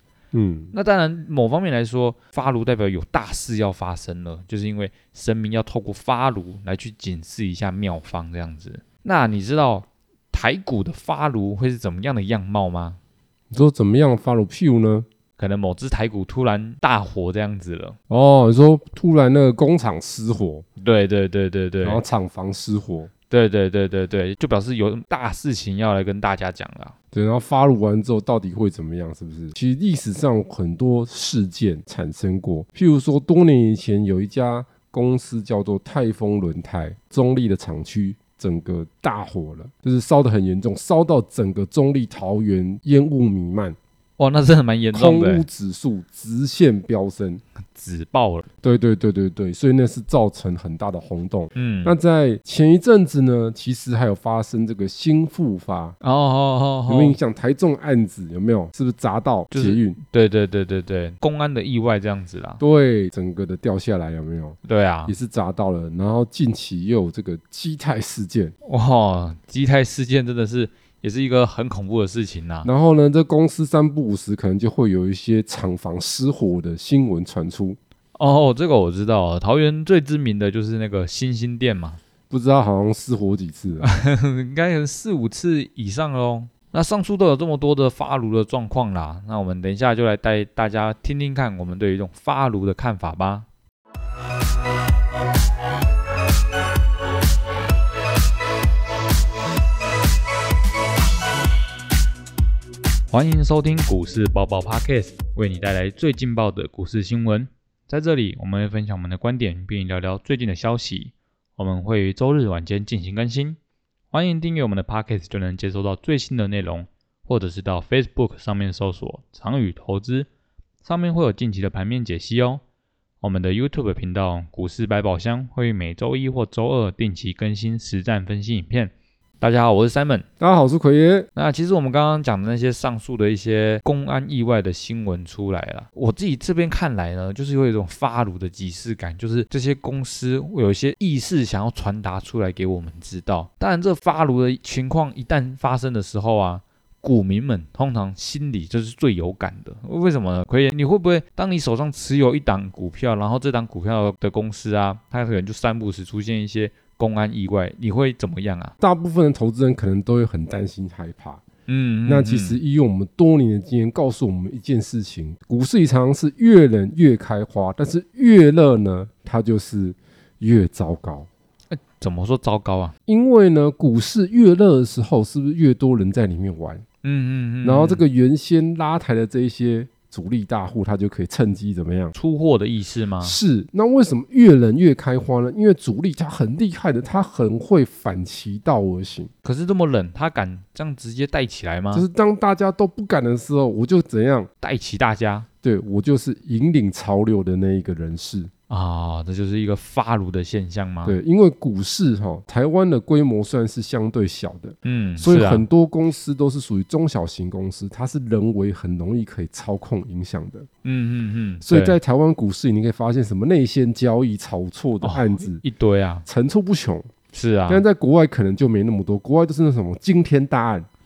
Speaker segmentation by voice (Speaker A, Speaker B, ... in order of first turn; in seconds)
Speaker A: 0.3-0.7, 13.5-15.1, 18.1-20.6, 21.8-23.1, 27.1-43.8, 44.9-47.4, 48.6-56.0, 56.9-60.0, 62.6-68.5, 72.7-77.8, 82.3-83.9, 130.4-131.3, 158.8-161.4, 162.1-171.3, 173.1-176.8, 177.6-182.2, 183.2-189.3, 191.9-194.5, 195.6-198.5, 201.1-210.7, 211.6-215.6, 216.3-217.1, 217.7-220.9
Speaker B: 0.7-13.0, 15.4-18.0, 20.8-22.0, 23.3-26.9, 44.2-45.5, 47.8-48.5, 51.6-52.0, 56.0-57.2, 59.5-62.6, 64.7-65.1, 68.7-72.7, 78.2-82.0, 83.8-93.5, 103.1-113.6, 114.1-120.3, 120.8-122.6, 123.2-130.2, 131.4-158.7, 161.7-162.6, 171.7-172.9, 177.0-178.0, 182.2-183.4, 189.4-192.1, 194.6-195.5, 198.7-201.2, 204.8-205.7, 210.8-212.0, 215.0-216.2, 217.3-217.8